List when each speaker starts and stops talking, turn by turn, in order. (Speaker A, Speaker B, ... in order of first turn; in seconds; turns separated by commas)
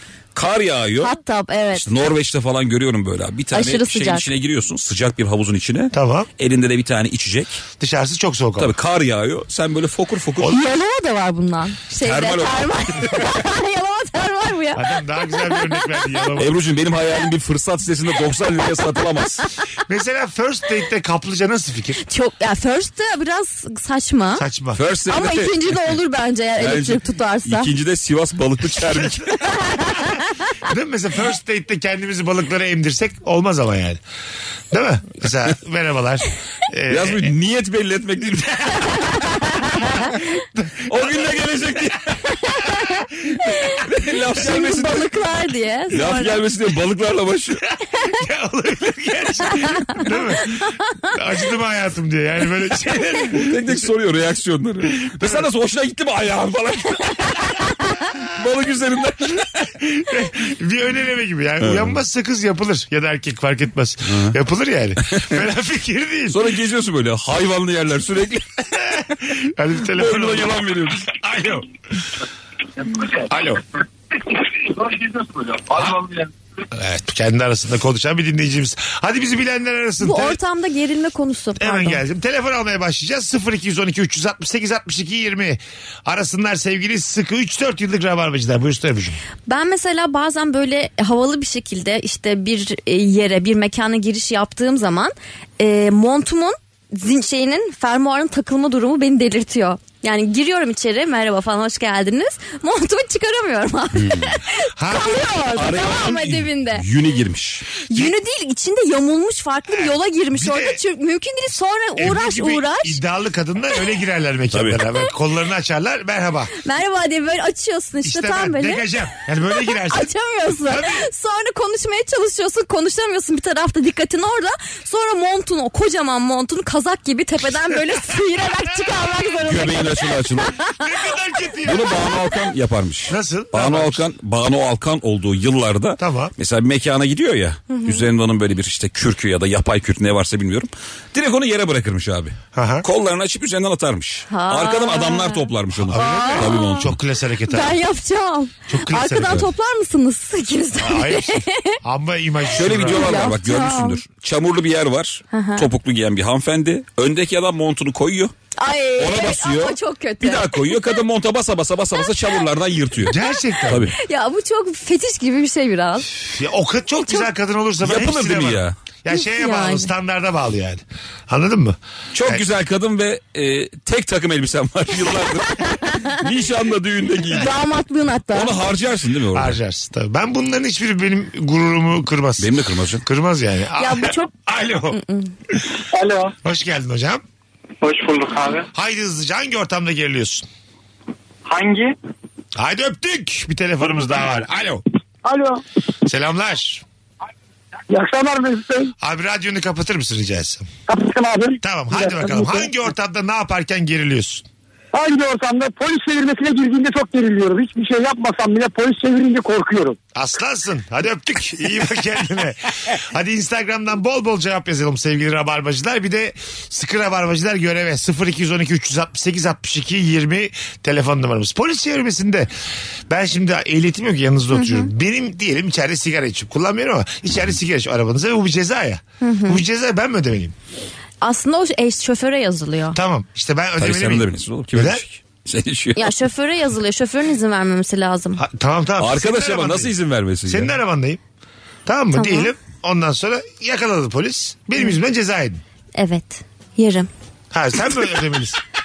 Speaker A: 0.3-1.1, Speaker B: 1.0-1.8, Speaker A: 1.7-7.6, Speaker B: 3.5-4.3, Speaker C: 5.9-6.3, Speaker C: 7.8-8.7, Speaker A: 8.6-10.6, Speaker B: 10.5-16.2, Speaker A: 12.0-13.4, Speaker C: 14.7-16.6, Speaker A: 16.4-19.5, Speaker C: 19.9-22.0, Speaker B: 22.1-24.4, Speaker C: 24.4-24.8, Speaker A: 24.7-26.0, Speaker B: 25.1-27.7, Speaker A: 26.6-29.4, Speaker C: 28.8-29.8, Speaker B: 29.5-30.5, Speaker C: 30.6-34.0, Speaker C: 34.7-37.3, Speaker A: 36.9-39.2, Speaker C: 38.6-39.0, Speaker C: 40.4-41.6, Speaker A: 40.9-42.4, Speaker C: 42.7-43.4, Speaker A: 43.5-45.1, Speaker B: 43.7-46.5, Speaker A: 45.9-47.6, Speaker C: 47.6-53.9, Speaker A: 53.3-59.7, Speaker C: 54.9-55.5, Speaker C: 59.6-66.4, Speaker A: 61.6-62.0, Speaker A: 64.1-64.3, Speaker A: 65.0-65.4, Speaker A: 66.3-69.0, Speaker C: 68.8-71.7, Speaker A: 69.9-71.2, Speaker C: 73.0-73.7, Speaker D: 75.0-76.3, Speaker C: 75.7-76.0, Speaker C: 76.7-80.4, Speaker B: 80.0-82.0, Speaker C: 81.6-89.2, Speaker B: 89.5-106.8, Speaker A: 104.0-104.3, Speaker C: 104.8-105.3, Speaker A: 105.5-107.8, Speaker B: 107.8-113.0, Speaker C: 109.7-110.8, Speaker C: 112.0-116.5, Speaker A: 114.5-114.8, Speaker B: 116.6-130.8, Speaker C: 118.0-120.1, Speaker C: 120.7-121.1, Speaker A: 129.4-130.6, Speaker C: 130.7-132.2, Speaker A: 131.6-147.0, Speaker C: 133.1-134.0, Speaker C: 136.0-136.3, Speaker B: 137.7-138.1, Speaker C: 142.5-142.8, Speaker B: 144.3-146.9, Speaker C: 145.8-147.8, Speaker B: 147.4-151.8, Speaker C: 148.7-149.5, Speaker C: 150.8-153.2, Speaker A: 152.5-158.3, Speaker B: 152.8-154.0, Speaker B: 155.3-155.7, Speaker B: 158.6-160.9, Speaker A: 159.0-163.2, Speaker C: 163.1-163.9, Speaker A: 163.7-163.9, Speaker B: 164.0-166.1, Speaker C: 166.2-172.4, Speaker A: 167.8-168.8, Speaker B: 169.1-169.9, Speaker A: 172.1-177.5, Speaker B: 175.6-176.1, Speaker B: 177.3-178.5, Speaker A: 178.3-179.6, Speaker C: 179.3-185.0, Speaker A: 182.4-183.0, Speaker B: 183.8-184.3, Speaker B: 184.9-185.3, Speaker D: 185.9-186.3, Speaker C: 186.4-187.2, Speaker D: 187.8-188.7, Speaker C: 188.7-190.4, Speaker D: 191.4-191.9, Speaker C: 192.6-194.8, Speaker D: 195.2-195.6, Speaker C: 196.0-196.8, Speaker D: 197.9-198.9, Speaker C: 199.0-200.7, Speaker D: 200.9-202.7, Speaker C: 201.6-204.4, Speaker D: 204.9-210.0, Speaker C: 210.1-222.5, Speaker C: 223.1-230.5, Speaker B: 224.5-224.9, Speaker B: 229.2-229.6, Speaker B: 231.2-233.0, Speaker C: 232.9-235.0, Speaker A: 233.8-236.2, Speaker B: 235.9-238.4, Speaker C: 238.4-239.9, Speaker A: 239.0-240.7, Speaker C: 240.4-241.2, Speaker C: 241.8-245.6, Speaker B: 242.1-242.5, Speaker B: 245.9-247.1, Speaker C: 247.5-248.6